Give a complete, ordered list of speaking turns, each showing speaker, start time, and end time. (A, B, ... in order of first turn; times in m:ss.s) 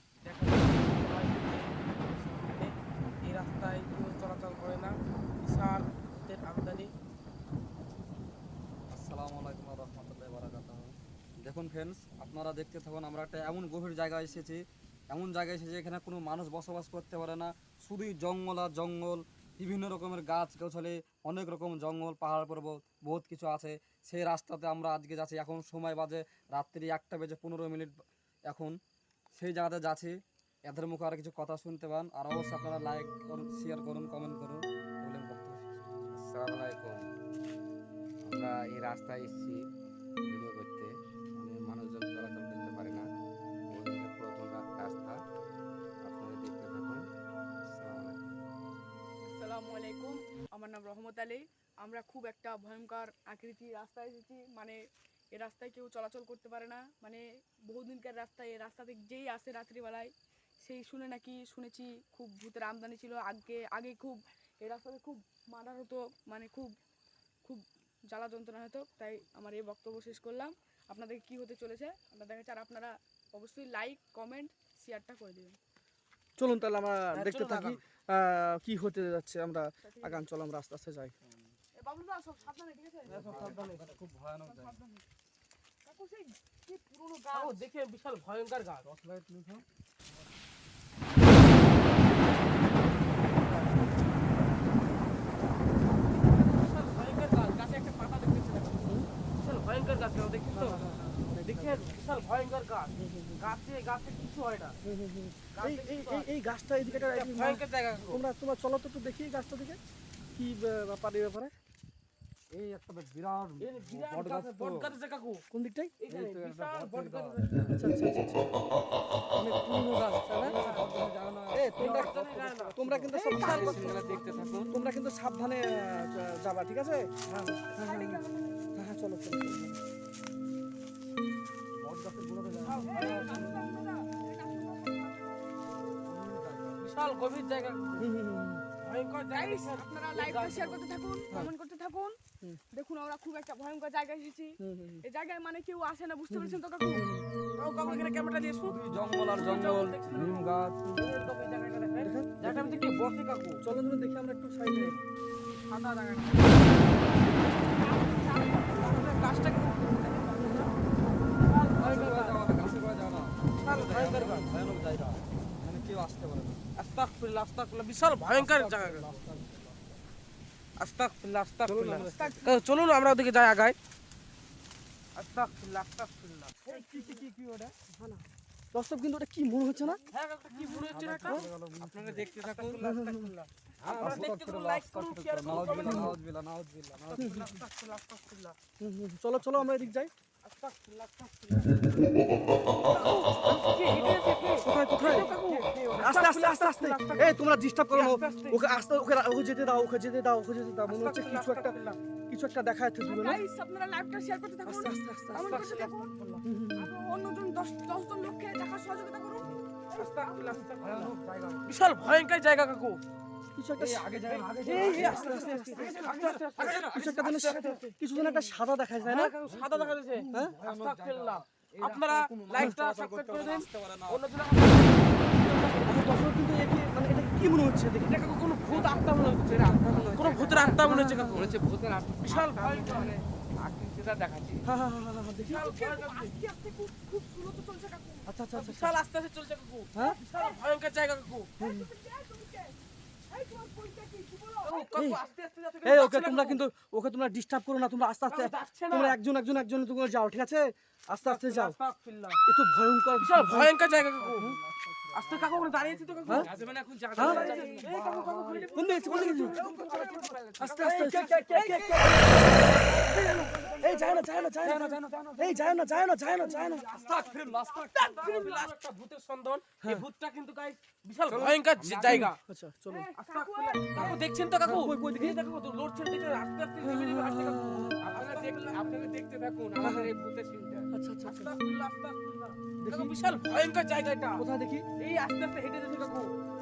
0:00.2-0:02.7 A
0:03.2-0:06.9 A
0:08.9-0:28.8 B
0:29.3-0:30.2 B
0:30.7-0:35.9 B
0:36.1-0:37.1 C
0:38.2-0:39.6 C
0:40.2-0:43.0 C
0:43.7-0:45.2 C
0:46.0-0:47.1 C
0:47.7-0:48.2 C
0:49.3-0:54.8 D
0:55.3-1:06.7 D
1:07.4-1:15.6 D
1:16.4-1:21.1 E
1:17.1-1:17.8 A
1:19.8-1:20.2 D
1:21.8-1:23.4 D
1:23.1-1:24.0 A
1:23.1-1:24.8 B
1:24.4-1:25.0 D
1:25.8-1:27.6 D
1:27.3-1:28.9 A
1:28.9-1:29.6 B
1:36.2-1:40.9 A
1:40.5-1:42.0 E
1:41.5-1:44.8 A
1:43.0-1:43.5 E
1:44.8-1:49.8 E
1:45.5-1:46.3 A
1:46.8-1:48.2 A
1:50.4-1:51.5 E
1:52.5-1:55.0 B
1:53.6-1:55.4 A
1:55.5-1:56.0 E
1:56.0-1:57.7 A
1:56.1-1:57.8 B
1:57.7-1:58.5 E
1:59.4-2:00.6 E
2:00.4-2:03.2 B
2:00.6-2:00.9 A
2:01.5-2:04.2 E
2:01.8-2:04.4 A
2:03.1-2:04.7 D
2:03.3-2:04.7 C
2:04.7-2:07.1 E
2:07.3-2:07.6 B
2:07.7-2:08.8 D
2:07.8-2:08.2 E
2:08.8-2:09.8 E
2:11.8-2:13.7 B
2:12.6-2:13.2 A
2:12.6-2:15.6 D
2:16.0-2:16.8 B
2:16.8-2:18.1 A
2:18.0-2:18.6 E
2:18.8-2:20.8 A
2:19.3-2:27.2 D
2:24.6-2:25.0 E
2:26.3-2:27.2 E
2:27.6-2:33.6 A
2:28.6-2:30.8 B
2:32.0-2:32.9 E
2:33.6-2:35.0 E
2:35.5-2:37.2 A
2:36.8-2:39.5 D
2:38.6-2:40.8 A
2:40.4-2:40.7 E
2:41.4-2:42.5 A
2:41.8-2:46.6 B
2:43.6-2:44.5 A
2:46.8-2:49.1 A
2:48.4-2:49.9 B
2:50.8-2:53.8 A
2:51.7-2:52.4 E
2:52.0-2:52.5 D
2:55.2-2:56.5 A
2:56.7-2:57.9 E
2:56.7-2:57.3 D
2:58.7-3:00.0 E
3:00.1-3:01.4 A
3:00.5-3:00.9 D
3:00.9-3:02.8 C
3:01.0-3:02.3 B
3:02.3-3:06.2 A
3:02.8-3:03.3 E
3:03.8-3:07.3 B
3:05.7-3:06.2 E
3:07.1-3:08.6 A
3:07.2-3:07.5 E
3:08.8-3:10.1 E
3:10.4-3:12.0 A
3:12.8-3:17.4 A
3:13.9-3:15.3 E
3:15.5-3:15.9 C
3:16.0-3:21.8 E
3:17.9-3:18.6 A
3:20.9-3:22.0 A
3:22.3-3:23.4 E
3:23.0-3:29.6 D
3:24.6-3:25.6 E
3:25.4-3:25.9 A
3:26.4-3:26.9 E
3:30.0-3:31.7 B
3:30.0-3:31.2 A
3:31.7-3:33.0 A
3:33.6-3:34.1 E
3:33.8-3:37.8 B
3:34.3-3:38.0 A
3:34.8-3:35.8 E
3:35.2-3:35.9 D
3:36.8-3:39.3 E
3:39.0-3:46.2 A
3:39.4-3:44.2 B
3:45.9-3:48.3 E
3:48.0-3:51.6 A
3:48.7-3:54.6 C
3:50.8-3:51.5 E
3:52.2-3:53.1 A
3:54.6-3:55.7 E
3:55.5-3:56.3 A
3:55.6-3:58.3 D
3:58.3-3:59.0 E
3:58.5-4:01.5 A
4:00.3-4:00.6 D
4:01.6-4:02.8 D
4:01.6-4:01.9 E
4:03.3-4:05.0 D
4:04.6-4:06.6 A
4:05.0-4:05.2 E
4:05.8-4:11.8 E
4:08.3-4:09.2 A
4:11.2-4:12.4 A
4:12.5-4:13.8 E
4:13.2-4:14.6 A
4:14.8-4:15.9 B
4:15.1-4:16.6 A
4:16.3-4:17.9 C
4:17.2-4:17.6 E
4:17.2-4:24.5 A
4:17.5-4:18.7 B
4:18.5-4:19.6 E
4:18.8-4:22.2 C
4:19.6-4:23.7 B
4:20.6-4:22.6 E
4:23.1-4:24.2 D
4:23.8-4:26.8 E
4:24.6-4:26.3 B
4:26.4-4:28.7 D
4:26.6-4:32.4 A
4:26.8-4:28.3 B
4:31.3-4:32.2 B
4:31.8-4:32.3 C
4:32.0-4:33.1 E
4:32.9-4:34.2 D
4:33.2-4:39.1 A
4:34.6-4:35.4 E
4:36.8-4:38.0 E
4:38.0-4:40.9 C
4:39.8-4:40.1 E
4:40.9-4:41.5 E
4:41.2-4:44.4 A
4:42.8-4:43.2 E
4:44.4-4:44.8 E
4:45.0-4:46.3 A